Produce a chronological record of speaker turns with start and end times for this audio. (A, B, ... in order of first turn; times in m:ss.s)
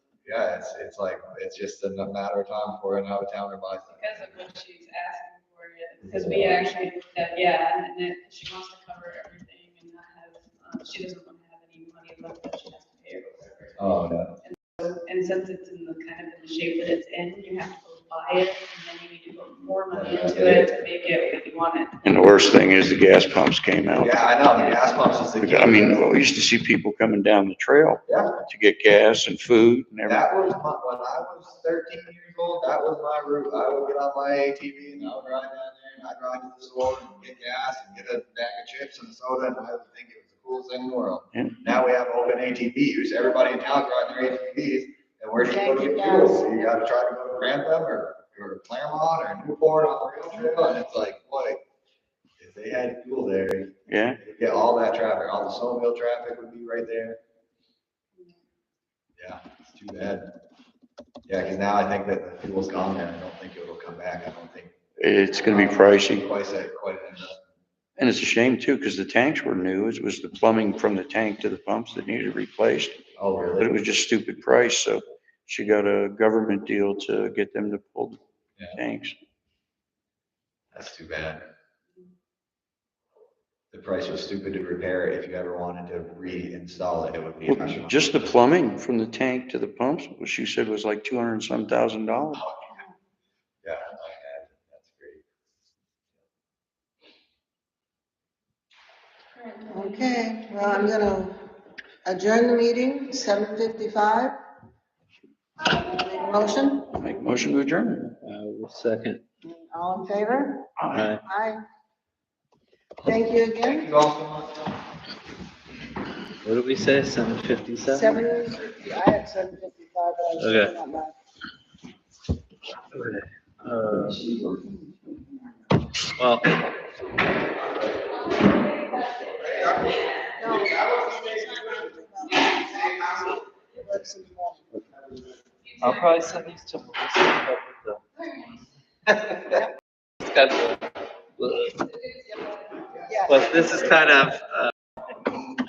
0:00.2-0:04.5 A
0:04.0-0:13.8 B
0:06.0-0:06.7 A
0:13.8-0:14.3 A
0:14.4-0:22.0 B
0:19.9-0:20.7 A
0:22.0-0:24.2 C
0:24.0-0:26.1 A
0:25.4-0:30.3 C
0:28.1-0:28.4 A
0:30.1-0:51.6 A
0:41.3-0:41.6 C
0:45.4-0:46.7 D
0:52.4-0:57.2 A
0:53.9-0:54.2 C
0:59.2-1:00.4 A
1:01.3-1:04.7 A
1:05.0-1:06.2 C
1:05.4-1:07.4 A
1:08.0-1:13.0 C
1:13.2-1:13.8 A
1:13.6-1:18.2 C
1:18.7-1:19.2 C
1:20.7-1:21.4 A
1:23.7-1:28.2 A
1:27.4-1:32.4 C
1:32.3-1:32.7 A
1:33.6-1:35.2 A
1:39.7-1:41.4 D
1:42.0-1:44.4 D
1:45.8-1:47.0 D
1:46.9-1:48.2 C
1:48.2-1:49.2 E
1:49.4-1:50.7 D
1:50.8-1:51.2 C
1:50.9-1:51.2 E
1:51.2-1:51.6 D
1:53.0-1:53.9 D
1:53.6-1:54.8 A
1:56.4-1:58.2 E
1:57.9-2:01.2 D
2:00.4-2:00.8 E
2:02.9-2:04.4 E
2:06.2-2:06.6 E
2:10.3-2:14.8 D
2:15.8-2:18.0 E
2:19.4-2:19.7 D
2:20.2-2:20.8 E
2:21.4-2:21.9 E
2:23.0-2:23.6 D
2:23.1-2:24.1 A
2:23.3-2:24.7 E